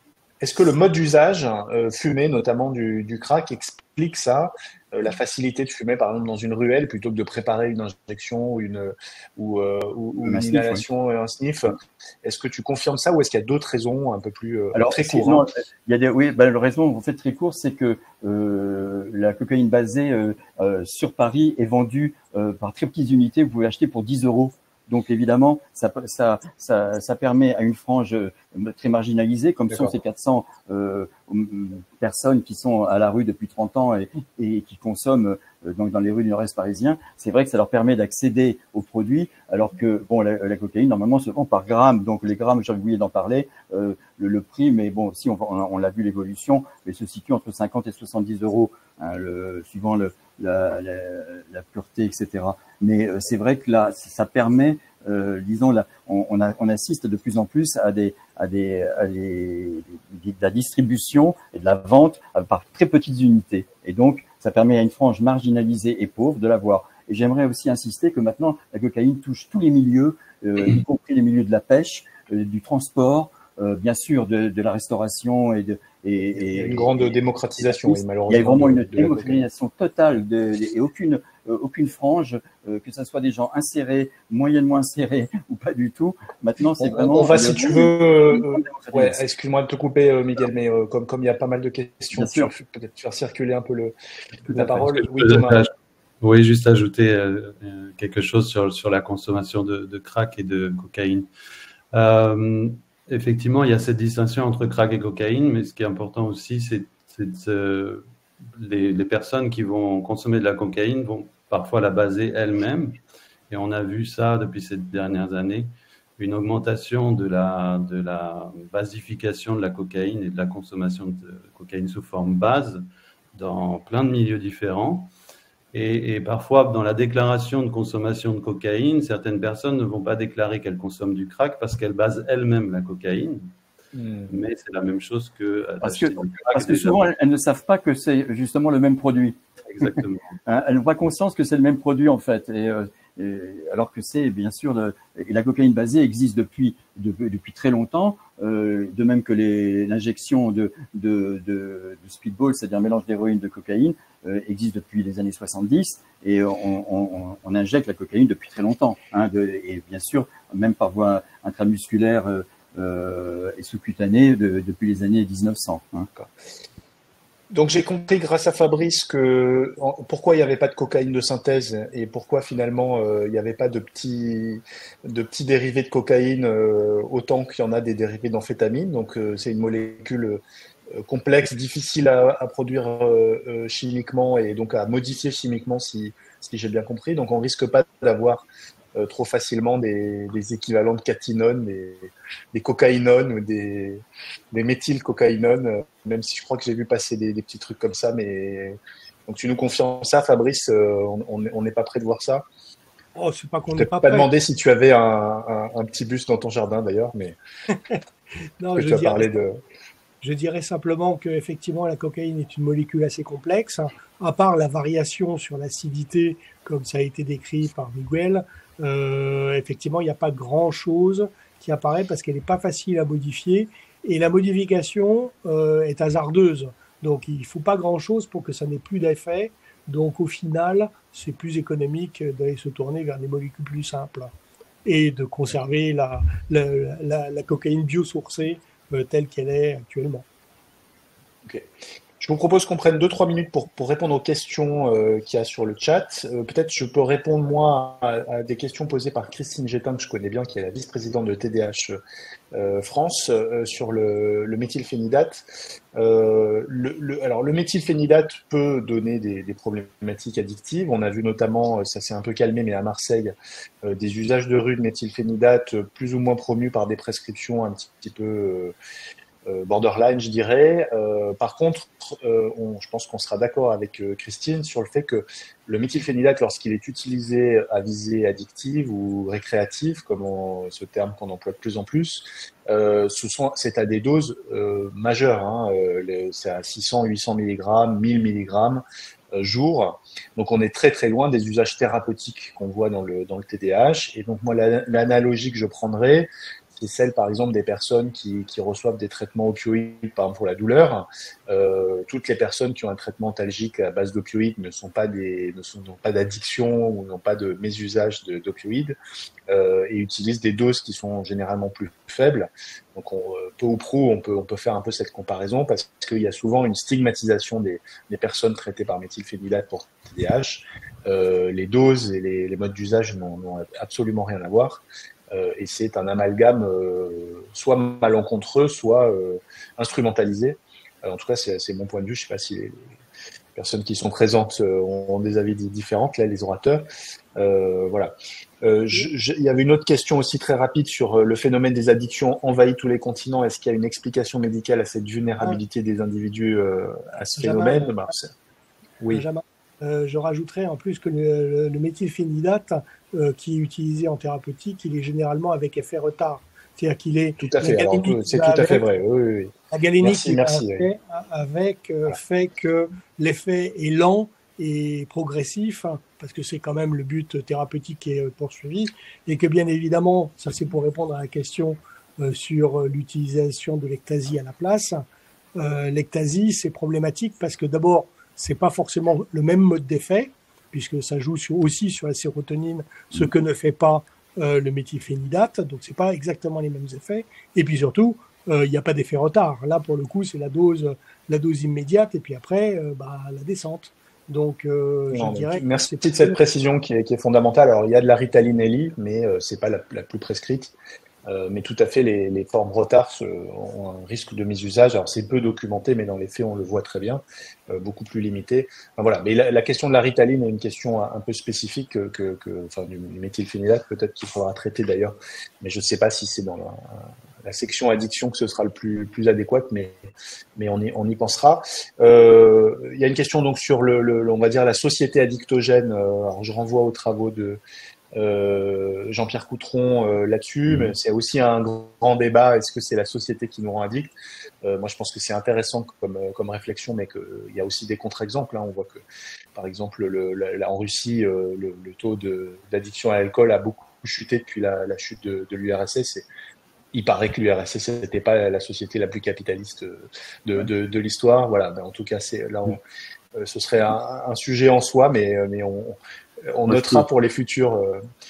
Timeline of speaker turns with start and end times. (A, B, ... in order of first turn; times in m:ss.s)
0:00.4-0:15.5 A
0:10.2-0:10.8 B
0:14.7-1:29.2 B
0:29.7-0:30.0 A
1:16.4-1:19.4 A
1:26.8-1:33.9 A
1:32.2-1:32.5 B
1:34.5-1:35.7 A
1:34.8-1:35.7 C
1:36.2-1:41.3 C
1:41.9-2:02.8 C
2:03.3-2:05.1 C
2:05.7-2:13.4 C
2:13.9-2:14.3 A
2:14.3-2:17.1 C
2:15.8-2:46.1 B
2:19.7-2:20.4 C
2:47.5-3:00.4 A
3:00.9-3:22.4 A
3:23.2-3:24.3 D
3:23.8-3:27.4 A
3:27.7-3:28.0 D
3:28.6-3:29.3 D
3:28.8-3:29.5 A
3:30.2-3:54.3 D
3:54.8-4:00.3 D
4:02.2-4:12.0 A
4:12.5-4:15.4 A
4:16.0-4:23.3 A
4:23.8-4:28.7 A
4:29.5-4:48.8 A
4:49.3-5:09.0 A
5:09.5-5:32.9 A
5:33.6-5:36.8 A
5:37.4-5:48.3 A
5:47.4-5:48.1 D
5:49.0-5:49.2 A
5:49.1-5:58.8 D
5:57.4-6:00.9 A
5:59.7-6:15.0 D
6:15.6-6:36.4 D
6:35.1-6:40.7 A
6:41.3-7:07.6 A
7:08.2-7:19.0 A
7:19.6-7:26.3 A
7:26.9-7:32.8 A
7:33.4-7:38.0 A
7:36.7-7:37.1 B